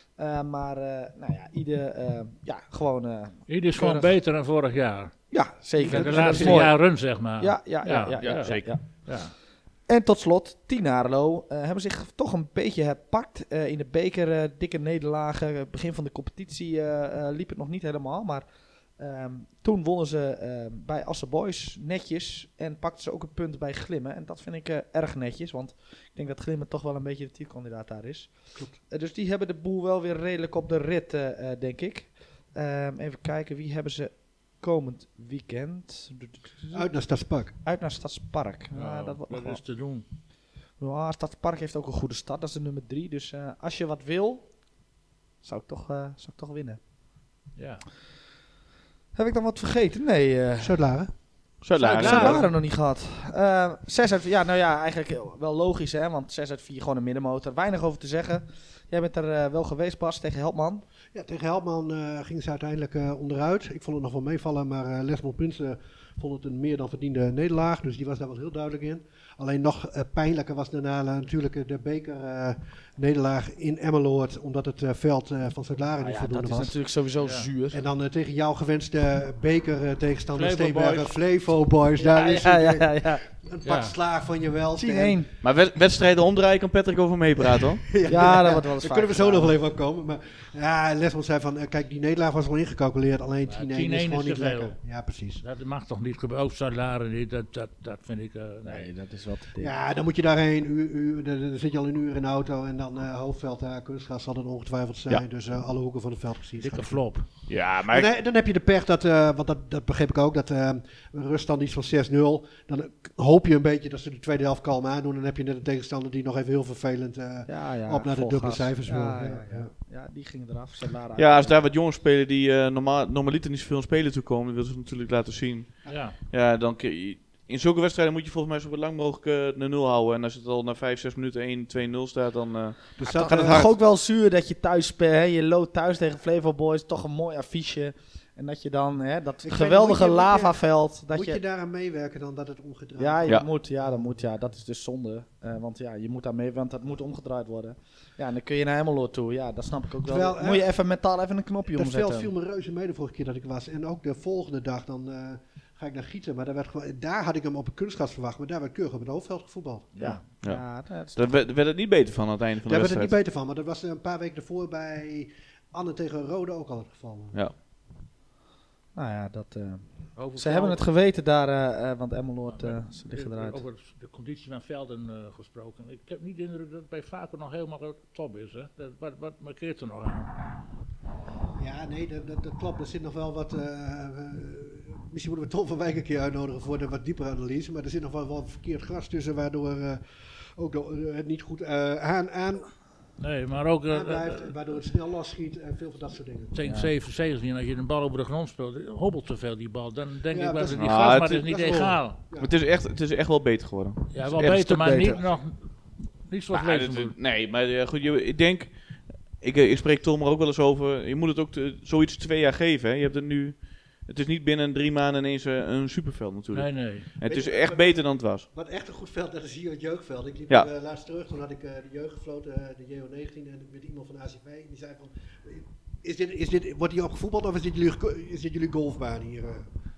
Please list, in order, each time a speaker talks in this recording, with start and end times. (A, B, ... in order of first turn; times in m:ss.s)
0:00.2-0:04.1 A
0:03.5-0:05.1 B
0:05.3-0:09.1 A
0:05.8-0:06.6 C
0:05.9-0:09.4 B
0:05.9-0:06.6 D
0:08.2-0:08.9 C
0:09.9-0:36.9 A
0:36.7-0:37.5 D
0:37.6-0:39.6 A
0:38.8-0:40.1 B
0:40.8-0:44.7 A
0:45.4-0:46.8 A
0:47.6-0:47.8 B
0:49.2-0:51.0 A
0:50.6-0:51.2 D
0:51.6-0:52.5 C
0:51.8-0:52.5 B
0:51.8-1:00.8 A
0:52.0-0:52.3 D
1:01.1-1:16.8 D
1:16.0-1:17.8 A
1:17.2-1:17.5 B
1:17.7-1:25.2 D
1:20.3-1:21.1 B
1:22.0-1:23.3 A
1:23.6-1:24.0 B
1:24.8-1:25.3 A
1:25.4-1:27.8 C
1:27.5-1:35.4 D
1:28.1-1:29.6 A
1:33.5-1:34.8 B
1:35.4-1:38.9 B
1:38.7-1:39.7 A
1:39.6-1:47.3 D
1:46.6-1:47.4 B
1:47.5-1:48.1 C
1:47.8-1:59.7 D
1:57.5-2:01.6 A
2:01.2-2:13.7 C
2:05.8-2:06.1 D
2:05.9-2:06.2 B
2:13.0-2:13.7 D
2:13.0-2:21.4 A
2:19.4-2:20.6 D
2:21.1-2:24.2 D
2:23.0-2:32.3 A
2:30.0-2:30.6 D
2:31.7-2:40.2 D
2:40.0-2:41.3 A
2:40.4-2:43.2 C
2:42.7-2:47.4 D
2:49.0-2:53.6 A
2:50.2-2:50.8 B
2:52.5-3:00.3 B
3:01.6-3:10.0 D
3:10.6-3:12.8 D
3:13.2-3:14.6 B
3:13.9-3:16.5 D
3:16.5-3:22.2 B
3:16.6-3:16.9 A
3:20.3-3:22.6 D
3:20.8-3:21.5 C
3:22.4-3:25.2 C
3:24.1-3:27.2 B
3:24.6-3:25.2 A
3:26.5-3:38.5 C
3:36.5-3:37.1 B
3:37.2-3:49.7 D